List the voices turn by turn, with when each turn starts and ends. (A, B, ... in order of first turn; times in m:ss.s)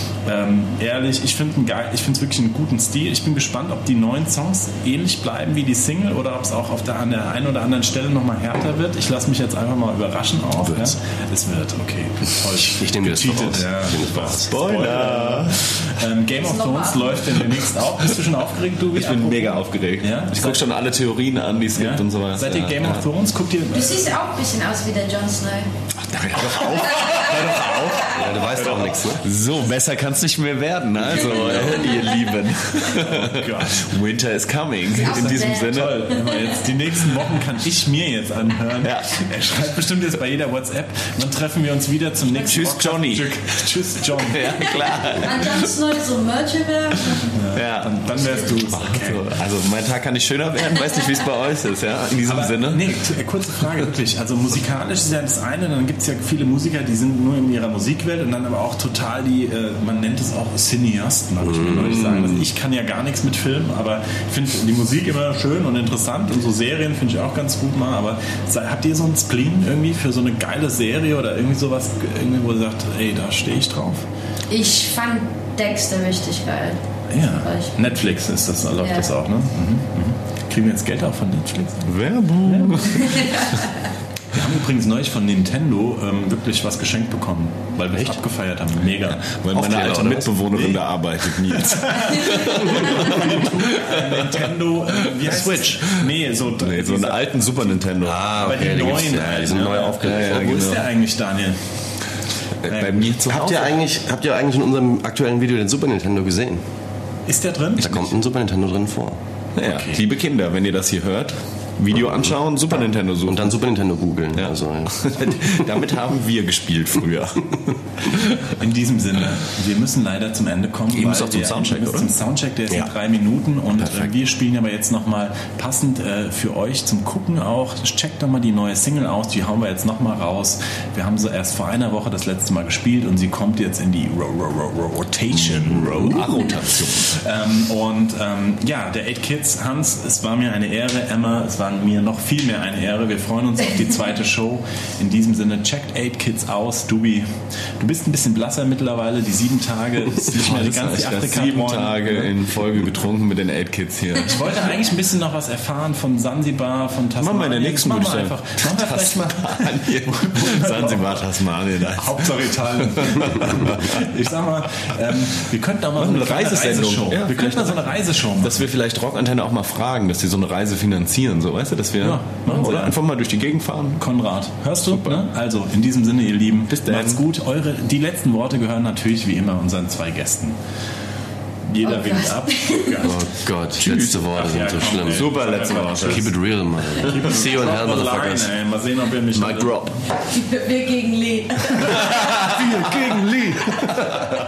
0:00.3-0:20.6 A
0:12.6-0:14.6 B
0:14.5-0:15.7 C
0:16.4-0:17.3 D
0:18.9-0:23.0 C
0:21.8-0:24.1 A
0:23.7-0:25.7 D
0:26.0-0:36.2 C
0:27.3-0:27.9 A
0:28.1-0:29.2 B
0:31.3-0:31.8 B
0:32.9-0:33.9 A
0:34.9-0:36.4 D
0:35.0-0:44.7 A
0:38.8-0:39.2 C
0:42.4-0:43.6 C
0:44.2-0:45.7 C
0:45.1-0:47.3 D
0:47.1-0:52.9 C
0:47.3-0:49.3 A
0:52.2-1:14.1 A
1:01.4-1:02.0 B
1:01.9-1:02.4 C
1:14.5-1:16.8 D
1:17.1-1:23.3 A
1:17.4-1:17.7 D
1:18.8-1:19.1 D
1:21.9-1:23.6 C
1:23.1-1:23.7 D
1:24.3-1:29.4 A
1:29.2-1:34.3 C
1:29.5-1:30.3 B
1:30.5-1:37.8 A
1:36.6-1:38.4 C
1:38.0-1:40.5 B
1:38.3-1:41.6 A
1:39.9-1:40.9 C
1:42.6-1:43.8 C
1:42.7-1:43.1 A
1:43.3-1:46.6 B
1:47.3-1:48.1 A
1:47.8-1:49.2 B
1:49.6-1:53.5 C
1:49.6-1:50.0 A
1:53.3-1:55.6 B
1:54.4-1:58.6 C
1:58.5-2:27.3 A
2:01.0-2:02.1 C
2:01.0-2:01.5 B
2:03.8-2:04.1 B
2:15.3-2:17.2 C
2:27.8-2:32.3 A
2:30.2-2:34.5 C
2:34.2-2:41.3 A
2:37.2-2:42.3 C
2:41.9-2:48.7 A
2:42.8-2:44.1 C
2:46.0-2:54.0 C
2:52.0-2:53.0 A
2:54.0-3:00.6 A
2:54.8-2:55.2 C
2:56.7-2:57.2 C
3:01.7-3:03.2 A
3:01.8-3:03.0 D
3:03.0-3:08.5 B
3:03.8-3:04.4 C
3:04.3-3:06.3 A
3:05.1-3:06.3 C
3:07.0-3:09.9 A
3:09.3-3:10.0 C
3:10.2-3:12.5 D
3:11.8-3:14.3 C
3:12.0-3:12.6 A
3:12.7-3:13.6 B